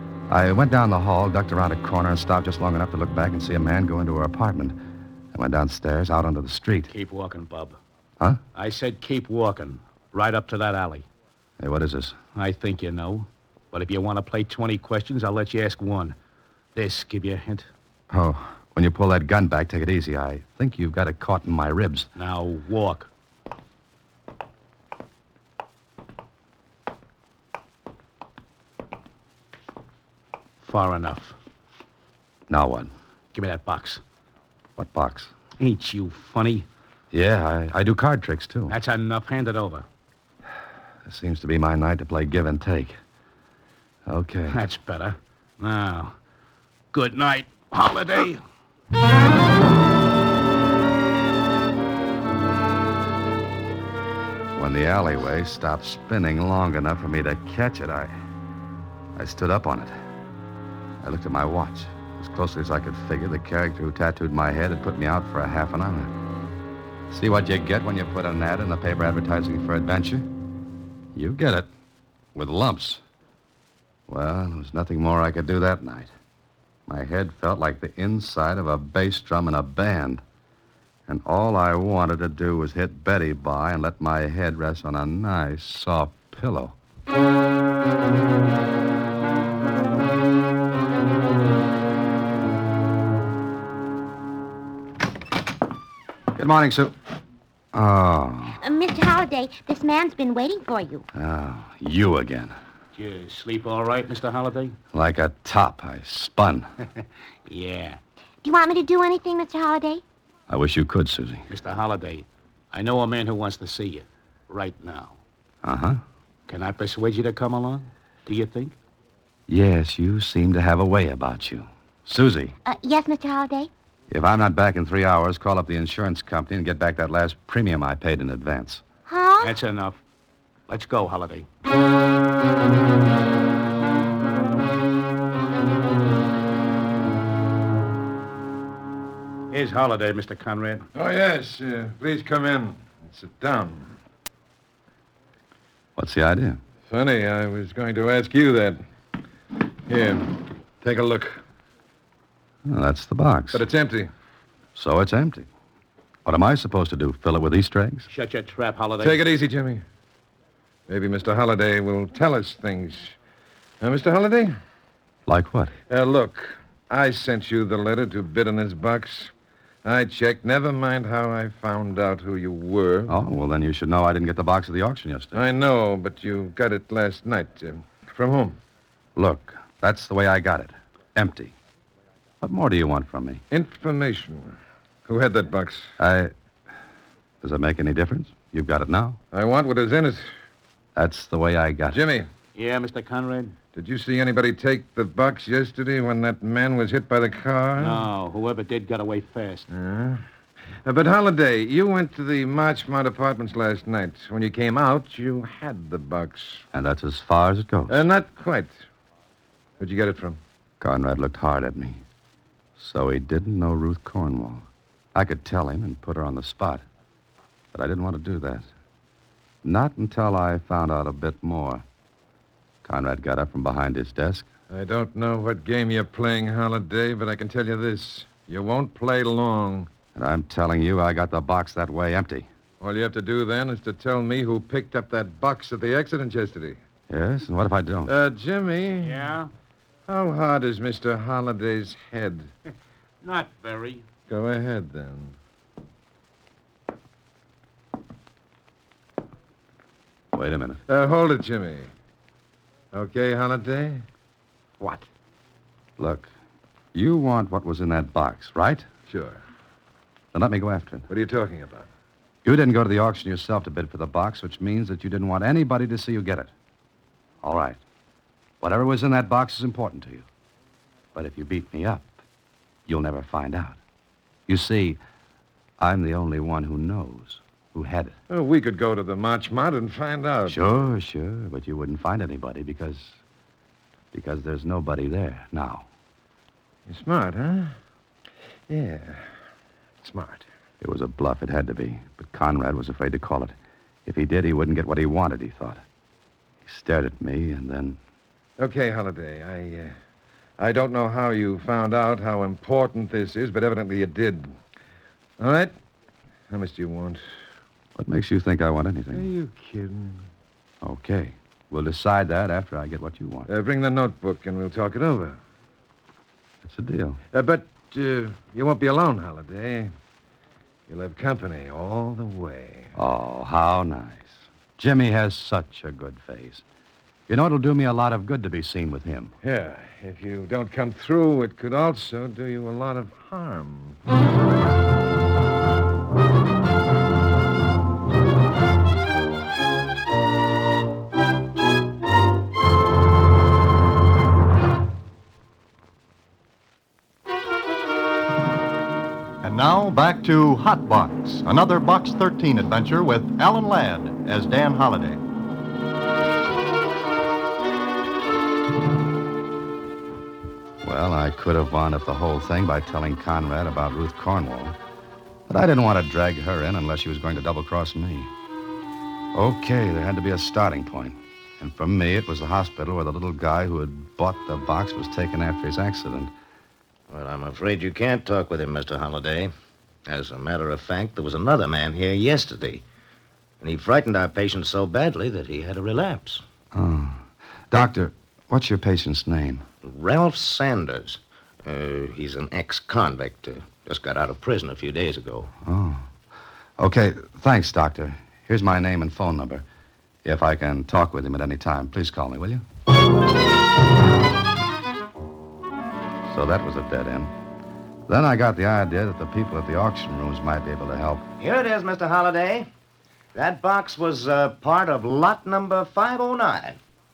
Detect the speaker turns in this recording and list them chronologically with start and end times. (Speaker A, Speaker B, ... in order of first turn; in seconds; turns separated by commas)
Speaker A: 0.3-4.8, Speaker A: 5.3-6.9, Speaker B: 6.9-7.8, Speaker B: 8.5-11.1, Speaker A: 11.6-12.2, Speaker B: 12.3-16.1, Speaker B: 16.7-17.7, Speaker A: 18.1-22.1, Speaker B: 22.2-23.1, Speaker B: 30.6-31.4, Speaker A: 32.5-32.9, Speaker B: 33.3-34.0, Speaker A: 34.8-35.3, Speaker B: 35.6-36.6, Speaker A: 37.1-38.7, Speaker B: 38.7-39.8, Speaker A: 41.0-43.0, Speaker A: 44.0-44.6, Speaker B: 44.5-46.1, Speaker B: 46.9-48.4, Speaker A: 54.5-58.1, Speaker A: 59.1-59.9, Speaker A: 61.0-66.1, Speaker A: 67.1-70.3, Speaker A: 71.1-71.7, Speaker A: 72.3-73.0, Speaker A: 74.1-76.1, Speaker A: 76.9-80.2, Speaker A: 81.1-86.8, Speaker A: 96.3-96.9, Speaker A: 97.7-98.6, Speaker C: 98.6-101.0, Speaker A: 101.1-102.5, Speaker B: 102.9-104.8, Speaker A: 104.9-106.7, Speaker B: 107.5-108.0, Speaker C: 108.4-110.0, Speaker A: 110.5-111.5, Speaker B: 111.5-115.2, Speaker A: 115.6-116.0, Speaker B: 116.5-118.7, Speaker A: 119.5-122.5, Speaker C: 122.7-123.7, Speaker A: 124.1-128.8, Speaker C: 129.1-129.5, Speaker B: 129.4-130.0, Speaker B: 130.7-131.5, Speaker B: 139.5-140.8, Speaker D: 140.9-143.9, Speaker A: 145.9-146.6, Speaker D: 146.9-148.8, Speaker D: 149.9-151.4, Speaker A: 152.7-153.6, Speaker D: 153.5-154.1, Speaker A: 154.7-155.5, Speaker A: 156.2-158.1, Speaker B: 158.1-159.2, Speaker D: 159.0-159.8, Speaker D: 160.9-163.1, Speaker D: 163.8-164.5, Speaker A: 165.3-165.7, Speaker D: 165.9-169.3, Speaker D: 169.8-173.2, Speaker A: 173.1-175.4, Speaker D: 175.3-178.6, Speaker A: 179.2-181.5, Speaker A: 182.4-183.4, Speaker D: 183.5-185.9, Speaker A: 186.0-186.3, Speaker A: 187.4-189.2, Speaker D: 189.3-190.2, Speaker A: 190.9-192.0, Speaker D: 191.9-192.3, Speaker B: 192.5-193.5, Speaker D: 193.7-198.0, Speaker B: 197.8-199.7, Speaker D: 199.7-200.2, Speaker D: 200.8-206.6, Speaker A: 206.7-208.0, Speaker D: 207.9-208.8, Speaker D: 209.8-210.4, Speaker A: 210.8-212.0, Speaker A: 212.8-216.8, Speaker A: 217.7-218.7, Speaker A: 219.6-221.8, Speaker A: 222.8-224.5, Speaker D: 224.7-229.9, Speaker A: 230.1-232.5, Speaker D: 232.8-236.8, Speaker A: 237.1-238.1, Speaker D: 238.1-239.2, Speaker B: 239.0-239.5, Speaker D: 240.1-242.5, Speaker B: 243.2-244.1, Speaker D: 244.3-245.3, Speaker A: 250.3-250.8, Speaker D: 250.9-251.9, Speaker D: 252.9-254.0, Speaker D: 254.8-255.0, Speaker A: 256.0-256.3, Speaker A: 256.9-258.9, Speaker D: 259.1-259.4, Speaker A: 260.3-261.1, Speaker D: 261.1-261.9, Speaker A: 262.4-266.5, Speaker A: 267.4-267.8, Speaker A: 268.6-270.2, Speaker A: 271.1-272.2, Speaker A: 272.9-273.8, Speaker A: 274.5-275.0, Speaker A: 275.8-278.1, Speaker D: 278.3-280.6, Speaker A: 280.5-283.1, Speaker A: 284.1-285.9, Speaker D: 286.9-287.8, Speaker D: 288.7-289.2, Speaker D: 290.0-290.4, Speaker A: 290.8-293.5, Speaker A: 294.1-295.8, Speaker A: 296.6-298.0, Speaker D: 298.6-299.9, Speaker D: 300.6-304.5, Speaker D: 305.4-305.7, Speaker D: 306.5-307.2, Speaker A: 307.9-309.3, Speaker D: 309.1-310.3, Speaker A: 310.8-313.5, Speaker D: 313.5-315.4, Speaker A: 316.6-317.2, Speaker D: 317.3-319.9, Speaker D: 320.9-322.9, Speaker A: 322.9-326.6, Speaker A: 327.3-329.3, Speaker D: 329.4-334.0, Speaker E: 349.4-355.2, Speaker A: 360.8-364.8, Speaker A: 365.5-368.3, Speaker A: 369.3-376.3, Speaker F: 377.1-379.5, Speaker F: 380.1-382.8, Speaker F: 383.6-386.4, Speaker A: 386.7-389.6, Speaker F: 389.8-395.5, Speaker A: 395.6-396.1, Speaker A: 396.8-399.6, Speaker A: 400.2-402.6, Speaker A: 406.3-407.3, Speaker A: 408.1-411.3, Speaker F: 411.4-412.7, Speaker F: 413.3-416.8